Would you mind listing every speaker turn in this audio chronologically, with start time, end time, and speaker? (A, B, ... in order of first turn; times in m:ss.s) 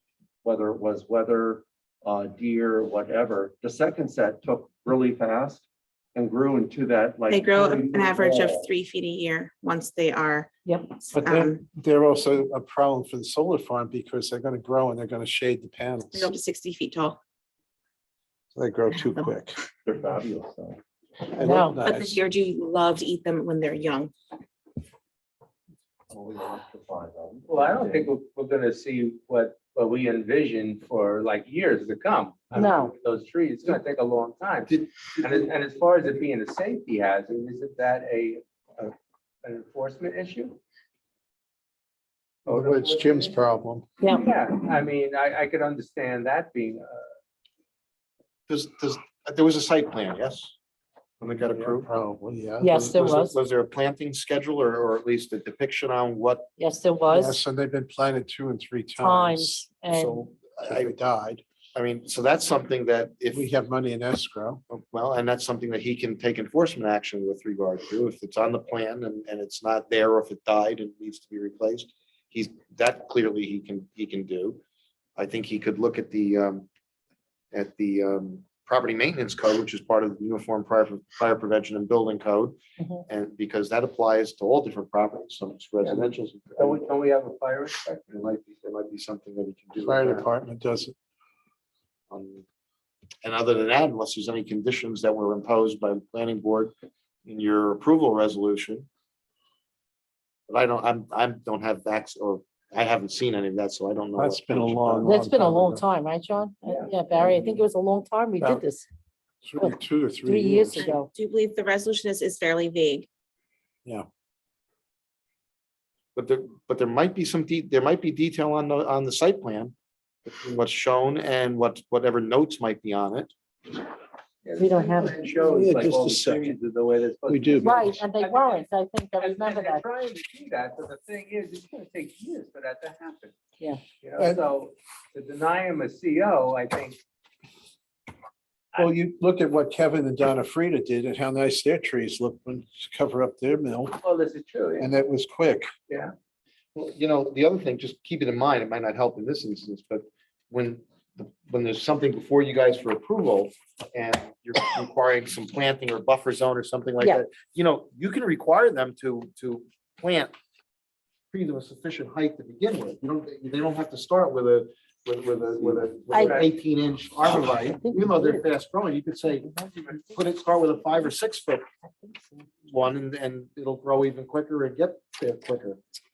0:00.4-0:05.6 A
0:06.1-0:08.7 A
0:07.3-0:11.6 B
0:10.6-0:10.9 C
0:11.1-0:16.3 D
0:16.1-0:17.2 B
0:18.5-0:19.6 D
0:18.9-0:19.3 B
0:19.8-0:20.8 A
0:21.3-0:22.2 D
0:21.4-0:21.8 C
0:21.8-0:24.1 B
0:26.1-0:28.1 A
0:27.5-0:38.9 E
0:32.6-0:32.9 C
0:39.4-0:40.6 E
0:42.5-0:43.0 E
0:42.5-0:43.9 D
0:44.0-0:44.3 C
0:44.1-0:47.1 E
0:48.5-0:50.5 F
0:51.2-0:51.9 F
0:51.5-0:52.8 D
0:52.6-0:53.3 C
0:52.7-0:56.5 F
0:56.6-0:57.4 C
0:57.1-1:01.4 D
0:59.0-1:00.3 C
1:00.4-1:00.9 F
1:01.7-1:03.4 F
1:03.3-1:04.6 D
1:04.7-1:14.6 F
1:15.2-1:16.7 F
1:17.5-1:26.8 F
1:22.8-1:23.0 C
1:25.8-1:28.1 E
1:28.1-1:30.3 F
1:29.8-1:30.9 D
1:32.1-1:32.4 F
1:33.2-1:36.7 F
1:37.2-1:38.9 F
1:40.5-1:45.1 F
1:44.1-1:45.8 D
1:45.0-1:48.8 C
1:49.4-1:50.9 D
1:50.2-1:51.1 C
1:50.8-1:53.1 B
1:56.1-1:59.7 F
2:00.2-2:03.3 F
2:04.4-2:13.3 E
2:04.6-2:05.2 C
2:05.3-2:06.6 D
2:07.3-2:08.0 D
2:07.6-2:09.8 C
2:14.0-2:17.0 E
2:18.8-2:24.0 D
2:23.9-2:24.9 E
2:24.8-2:25.7 D
2:26.7-2:40.3 F
2:41.3-2:51.6 F
2:46.1-2:46.5 C
2:47.5-2:48.4 C
2:49.3-2:50.3 C
2:52.7-2:55.8 F